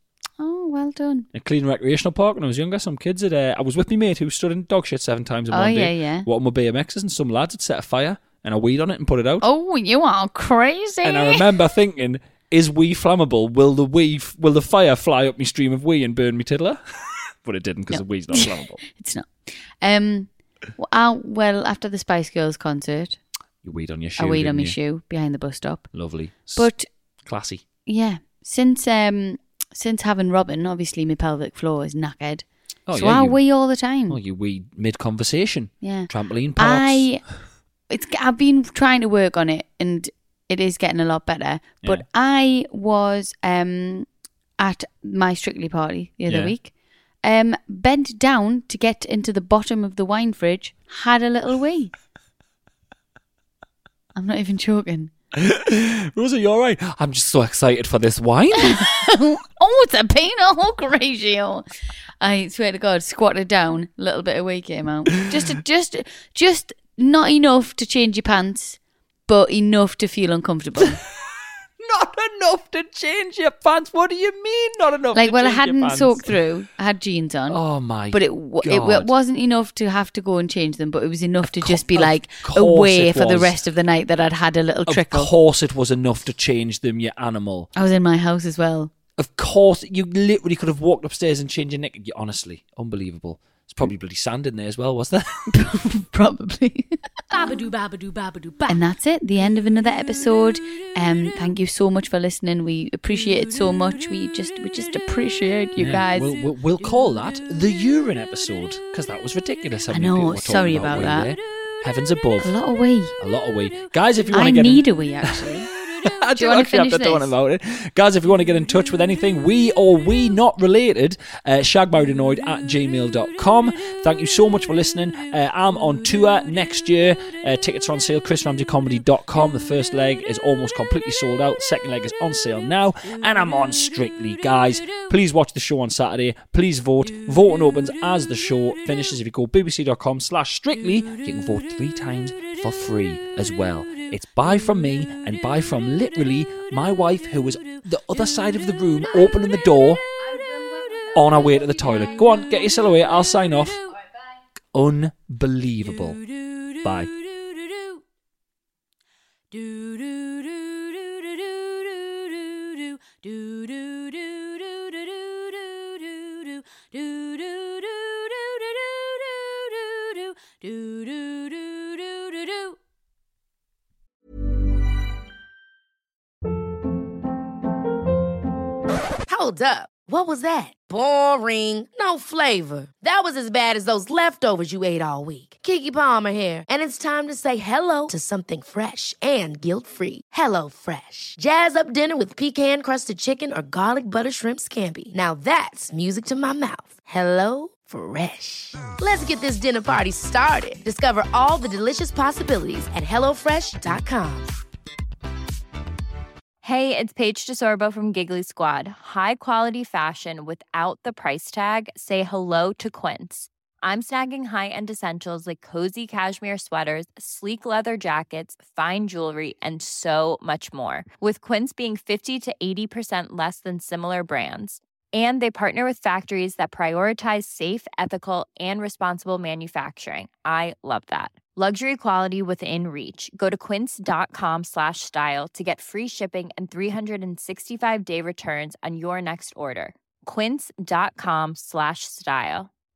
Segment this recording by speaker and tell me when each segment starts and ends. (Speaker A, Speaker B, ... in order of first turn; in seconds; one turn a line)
Speaker A: 0.4-1.3
Speaker B: 1.3-9.4
Speaker A: 5.5-6.3
Speaker A: 9.4-11.4
Speaker B: 11.0-16.8
Speaker B: 17.4-18.8
Speaker A: 17.9-23.2
Speaker B: 23.6-24.8
Speaker A: 24.2-25.9
Speaker B: 25.9-26.7
Speaker A: 26.6-26.9
Speaker B: 27.3-27.6
Speaker A: 27.9-34.2
Speaker B: 32.9-33.4
Speaker B: 34.1-37.1
Speaker A: 35.8-37.2
Speaker A: 37.9-44.1
Speaker A: 44.6-46.7
Speaker B: 46.3-46.5
Speaker A: 47.2-51.9
Speaker A: 54.2-55.1
Speaker B: 55.3-58.9
Speaker A: 58.6-61.6
Speaker A: 62.2-71.0
Speaker B: 71.8-76.4
Speaker A: 75.2-77.6
Speaker B: 77.5-79.1
Speaker A: 78.1-85.3
Speaker B: 81.6-83.6
Speaker B: 84.9-87.7
Speaker A: 87.8-88.9
Speaker B: 89.2-95.5
Speaker A: 95.5-97.0
Speaker C: 97.3-98.8
Speaker A: 98.7-106.3
Speaker B: 105.8-112.5
Speaker A: 109.9-111.3
Speaker A: 112.4-113.2
Speaker B: 113.2-115.5
Speaker A: 114.3-115.7
Speaker B: 116.0-150.0
Speaker A: 116.4-117.3
Speaker C: 149.6-153.1
Speaker B: 151.1-153.8
Speaker B: 154.7-156.2
Speaker C: 155.8-158.0
Speaker B: 156.8-157.1
Speaker C: 159.5-172.8
Speaker D: 179.3-204.6
Speaker E: 206.6-242.7